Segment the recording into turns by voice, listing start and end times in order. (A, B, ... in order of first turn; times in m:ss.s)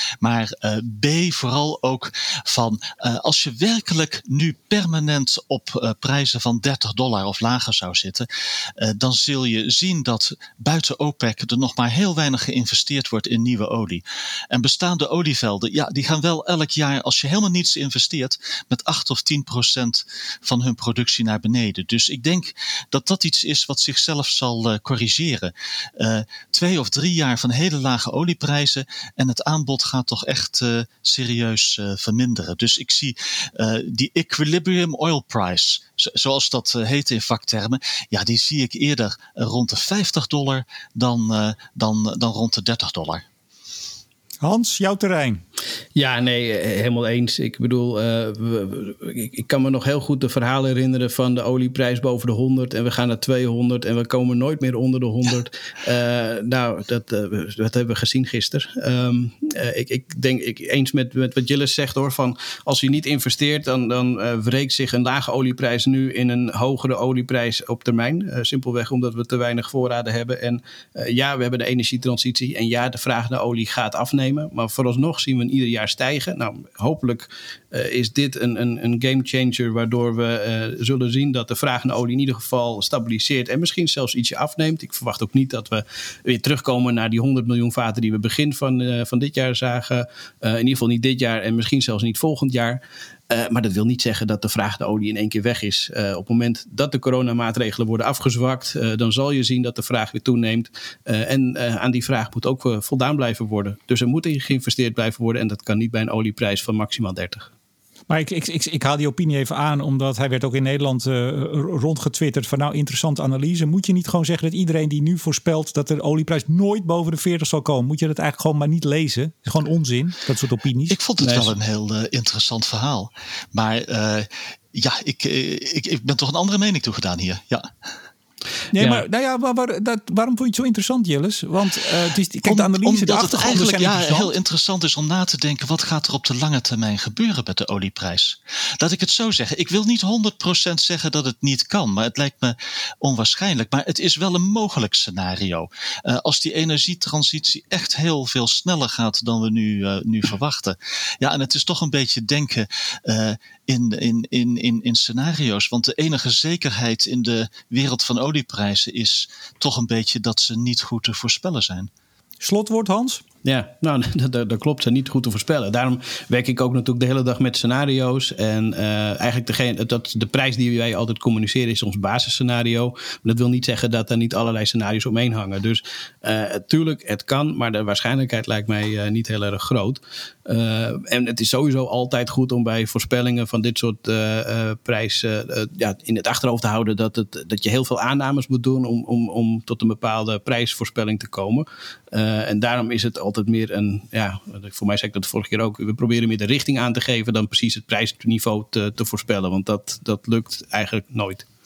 0:00.2-0:43.2 A
0:44.4-0:45.4 B
0:46.0-1:47.5 C
1:48.1-2:01.0 B
2:00.9-2:07.7 A
2:01.2-2:01.5 C
2:08.7-2:14.3 B
2:08.8-2:09.0 C
2:12.4-2:41.9 A
2:42.4-2:43.2 B
2:43.4-3:21.4 C